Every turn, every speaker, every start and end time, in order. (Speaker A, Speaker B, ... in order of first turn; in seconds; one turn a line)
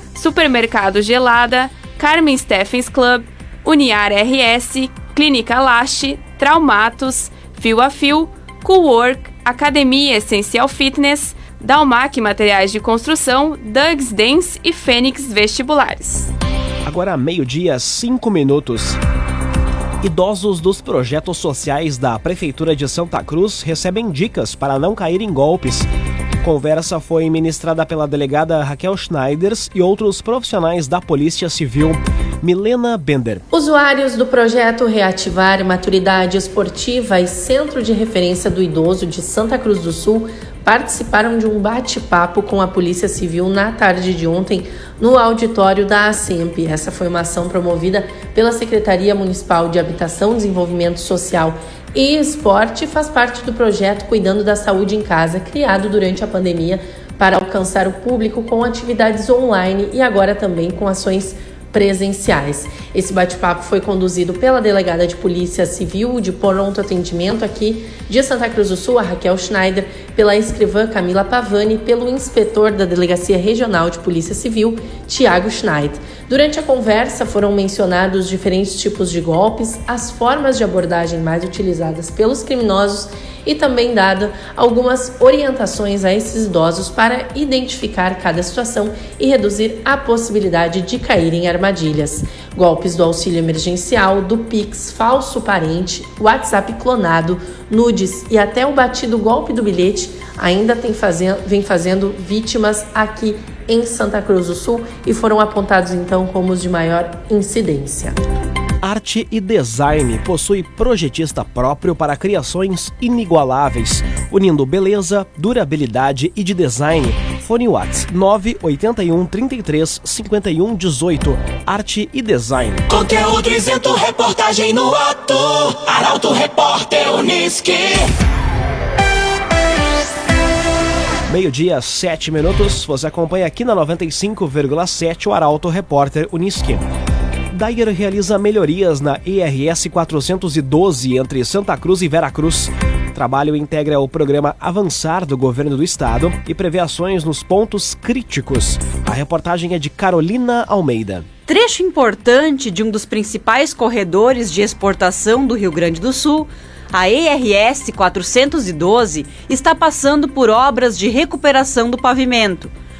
Speaker A: 0.1-16.3
Speaker B: 16.9-19.0
Speaker B: 20.0-25.9
Speaker B: 26.4-33.4
Speaker C: 33.5-108.2
Speaker B: 108.8-122.8
Speaker D: 122.9-128.1
Speaker B: 131.3-136.8
Speaker B: 137.5-151.3
Speaker E: 151.5-162.7